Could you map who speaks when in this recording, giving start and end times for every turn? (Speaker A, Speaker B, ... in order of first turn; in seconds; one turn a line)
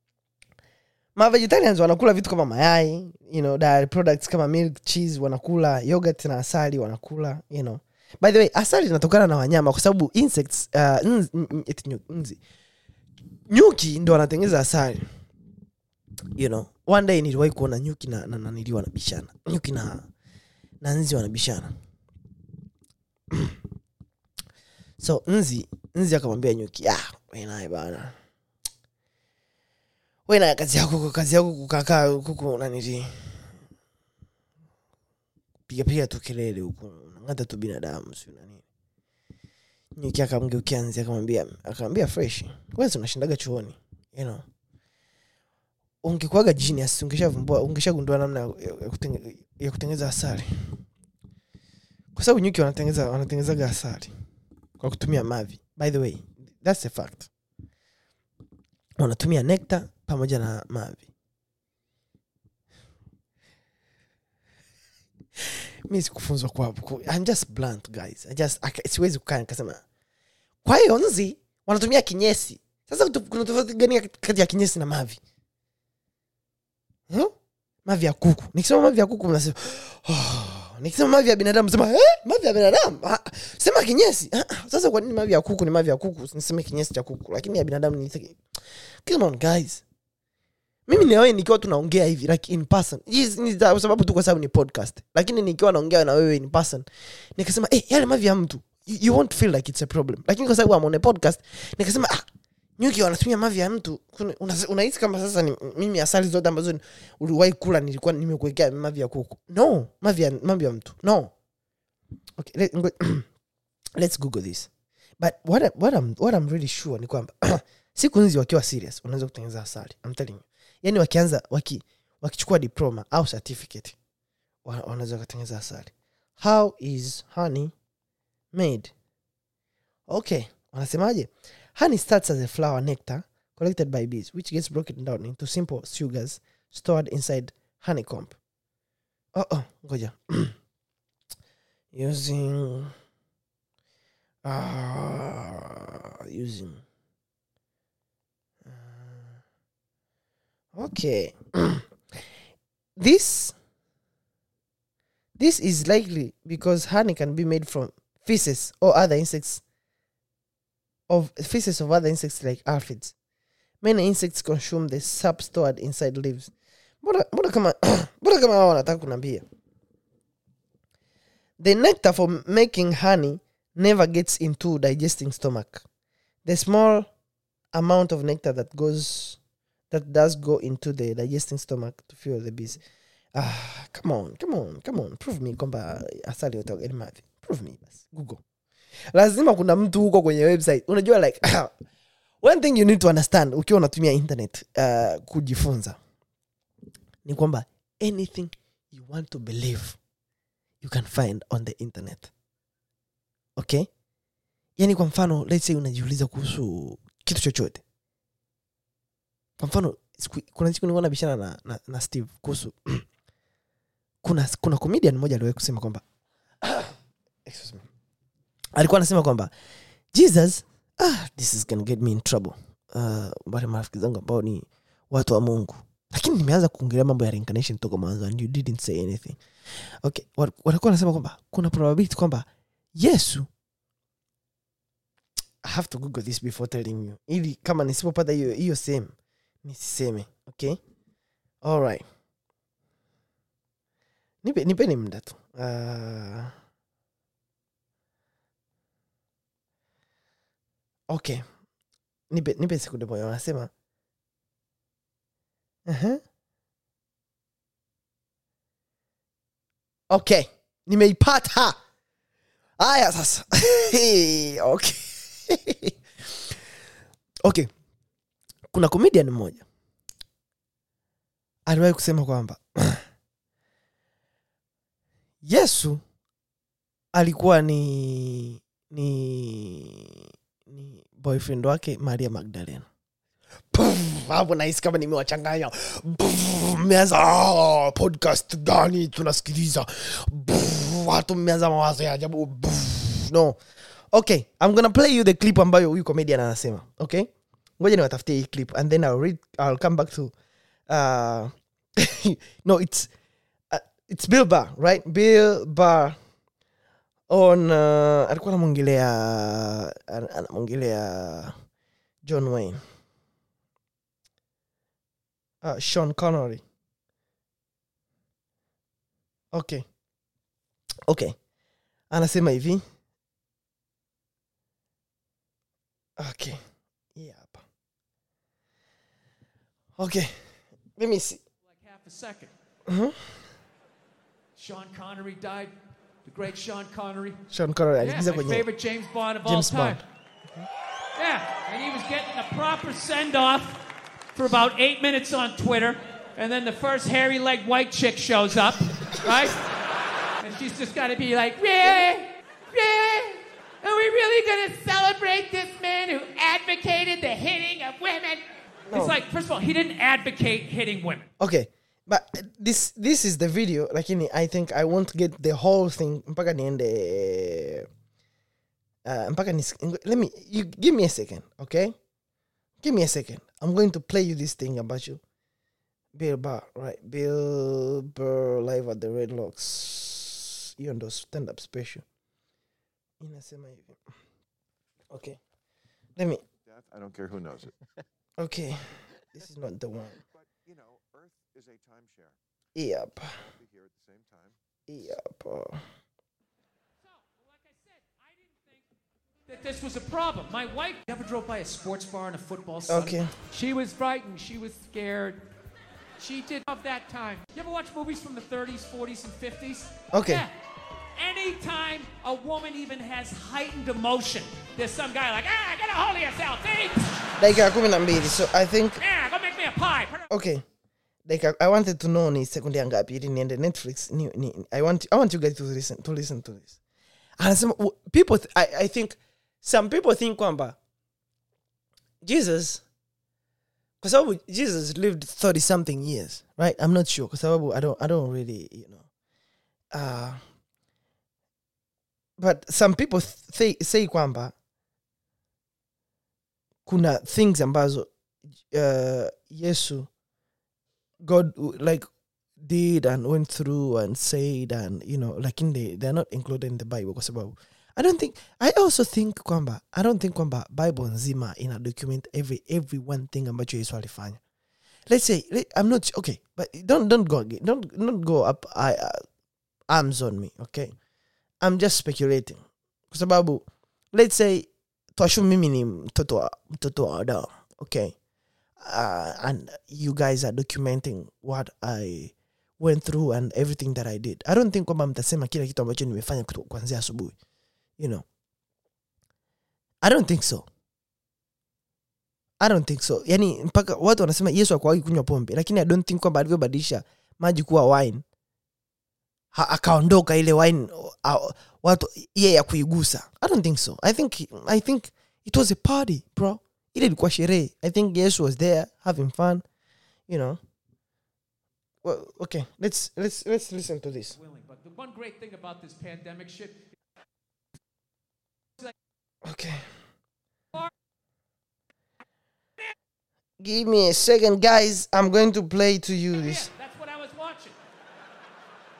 Speaker A: 1.1-12.4
Speaker A: 13.5-15.1
Speaker A: 16.4-20.1
Speaker A: 20.8-21.7
Speaker A: 25.0-28.1
Speaker A: 30.3-33.4
Speaker A: 35.7-38.6
Speaker A: 40.0-44.5
Speaker A: 46.0-50.8
Speaker A: 52.1-54.1
Speaker A: 54.8-57.3
Speaker A: 59.0-61.0
Speaker A: 65.9-69.8
Speaker A: 70.6-75.2
Speaker A: 77.8-88.4
Speaker A: 89.0-89.8
Speaker A: 90.9-102.3
Speaker A: 102.8-111.3
Speaker A: 112.4-113.3
Speaker A: 114.0-124.0
Speaker A: 124.6-127.7
Speaker A: 128.5-128.9
Speaker A: 130.1-138.4
Speaker A: 139.3-140.6
Speaker A: 141.9-142.9
Speaker A: 144.4-146.8
Speaker A: 148.6-149.4
Speaker A: 150.7-151.9
Speaker A: 153.0-153.5
Speaker A: 155.4-159.6
Speaker A: 161.1-163.1
Speaker A: 163.8-169.4
Speaker A: 171.6-175.8
Speaker A: 176.4-177.1
Speaker A: 177.7-179.4
Speaker A: 179.9-182.8
Speaker A: 183.3-188.4
Speaker A: 189.1-191.7
Speaker A: 192.4-196.0
Speaker A: 197.2-200.0
Speaker A: 200.8-202.3
Speaker A: 203.6-203.9
Speaker A: 204.8-207.8
Speaker A: 209.6-213.0
Speaker A: 214.2-216.0
Speaker A: 216.6-216.9
Speaker A: 217.4-217.8
Speaker A: 218.8-219.5
Speaker A: 220.1-229.4
Speaker A: 230.0-233.5
Speaker A: 235.6-240.8
Speaker A: 241.6-242.0
Speaker A: 244.4-246.5
Speaker A: 251.1-251.4
Speaker A: 252.3-253.7
Speaker A: 255.9-256.2
Speaker A: 260.1-261.8
Speaker A: 262.8-265.9
Speaker A: 267.4-267.7
Speaker A: 268.7-269.6
Speaker A: 271.7-273.0
Speaker A: 275.4-276.0
Speaker A: 277.1-282.9
Speaker A: 283.7-293.6
Speaker A: 294.1-300.3
Speaker A: 300.9-303.1
Speaker A: 303.7-306.2
Speaker A: 307.3-311.5
Speaker A: 312.2-312.8
Speaker A: 315.6-316.6
Speaker A: 319.5-319.8
Speaker A: 321.1-321.4
Speaker A: 322.1-322.8
Speaker A: 326.2-326.6
Speaker A: 327.1-327.6
Speaker A: 330.0-330.4
Speaker A: 331.0-331.4
Speaker B: 331.7-332.5
Speaker A: 332.9-333.3
Speaker B: 334.6-335.7
Speaker B: 336.2-337.4
Speaker A: 337.5-338.6
Speaker B: 338.0-340.0
Speaker A: 339.4-340.0
Speaker B: 341.1-343.8
Speaker B: 344.3-349.6
Speaker B: 350.4-361.3
Speaker A: 361.4-367.9
Speaker A: 369.1-371.9
Speaker A: 372.8-375.2
Speaker A: 376.1-382.0
Speaker A: 383.2-384.0
Speaker A: 385.1-385.4
Speaker A: 386.2-386.4
Speaker C: 386.6-387.9
Speaker A: 388.4-390.2
Speaker C: 390.2-392.4
Speaker A: 392.7-393.4
Speaker C: 393.4-394.6
Speaker A: 394.9-395.8
Speaker B: 397.1-398.8
Speaker B: 399.5-405.4
Speaker A: 402.9-403.3
Speaker B: 406.2-410.5
Speaker A: 410.1-410.4
Speaker B: 411.1-417.4
Speaker A: 417.4-419.0
Speaker B: 419.0-420.3
Speaker A: 420.3-420.6
Speaker A: 421.3-426.7
Speaker A: 427.4-430.8
Speaker A: 432.2-432.8
Speaker A: 434.0-439.0
Speaker A: 439.9-440.4
Speaker A: 442.4-444.5
Speaker A: 446.9-448.1
Speaker A: 448.7-450.1
Speaker A: 451.2-452.1
Speaker A: 452.6-464.4
Speaker A: 465.1-469.2
Speaker A: 469.9-470.9
Speaker A: 471.6-478.1
Speaker A: 478.8-487.3
Speaker A: 488.0-488.2
Speaker A: 490.0-490.7
Speaker A: 492.6-498.2
Speaker A: 499.5-509.6
Speaker A: 510.3-510.6
Speaker A: 512.0-514.4
Speaker B: 514.3-516.9
Speaker A: 519.4-519.9
Speaker A: 523.6-526.7
Speaker B: 526.4-527.8